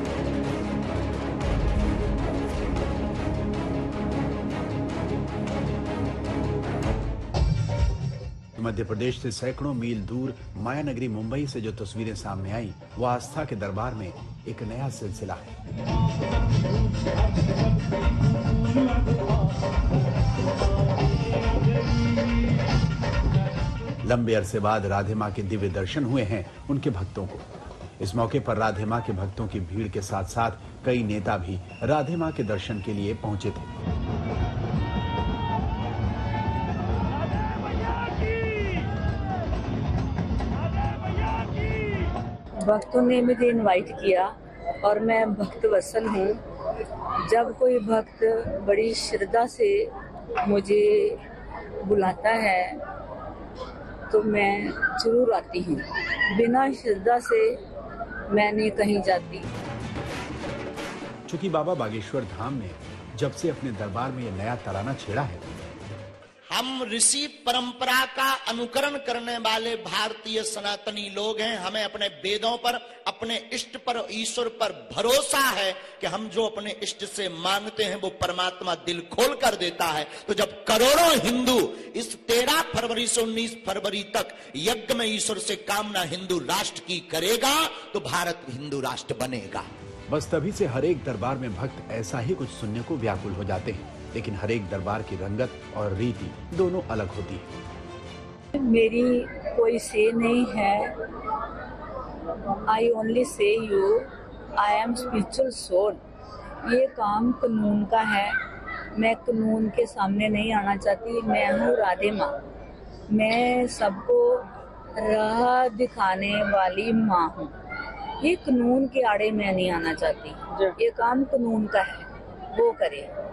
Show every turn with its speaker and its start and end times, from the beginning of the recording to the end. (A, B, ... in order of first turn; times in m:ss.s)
0:08.6-0:15.5 A
0:24.0-0:27.4 A
0:28.0-0:33.7 A
0:42.6-0:46.4 B
0:47.2-0:51.2 B
0:51.8-0:52.8 B
0:54.1-0:57.6 B
0:58.3-0:59.5 B
1:01.3-1:05.4 A
1:06.5-1:29.7 C
1:30.1-1:37.4 A
1:38.6-1:41.0 B
1:42.5-1:46.0 B
1:46.6-1:48.4 B
1:49.0-1:52.4 B
1:53.1-1:57.6 B
1:58.2-2:03.1 B